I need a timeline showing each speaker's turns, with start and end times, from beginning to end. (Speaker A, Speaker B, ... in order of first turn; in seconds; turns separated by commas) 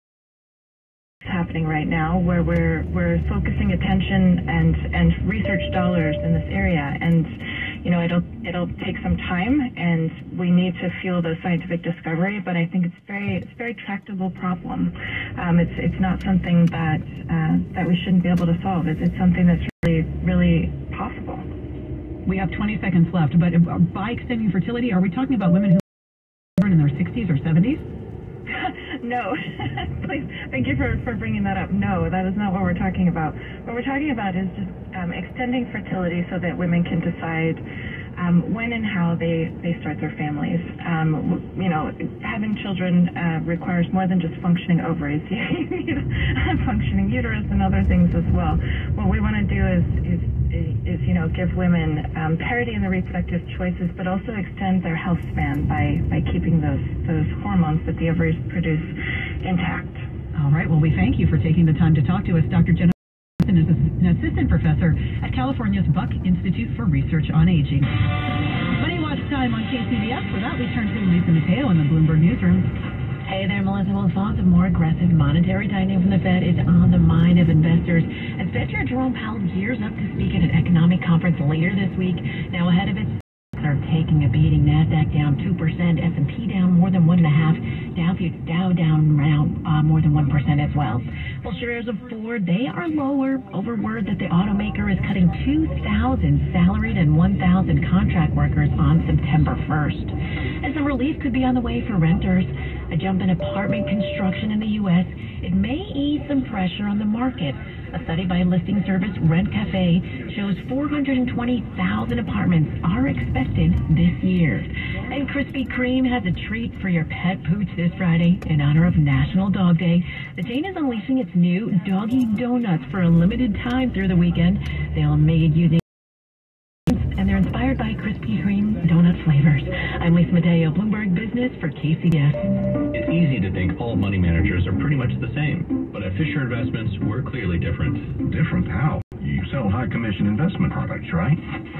Speaker A: 1.2-21.4, Speaker B: 22.2-25.8, Speaker B: 26.6-27.8, Speaker A: 28.5-37.6, Speaker A: 38.1-60.0, Speaker B: 60.4-67.9, Speaker B: 68.8-72.7, Speaker C: 73.2-125.8, Speaker C: 126.9-132.5, Speaker D: 132.9-138.1, Speaker E: 138.2-141.4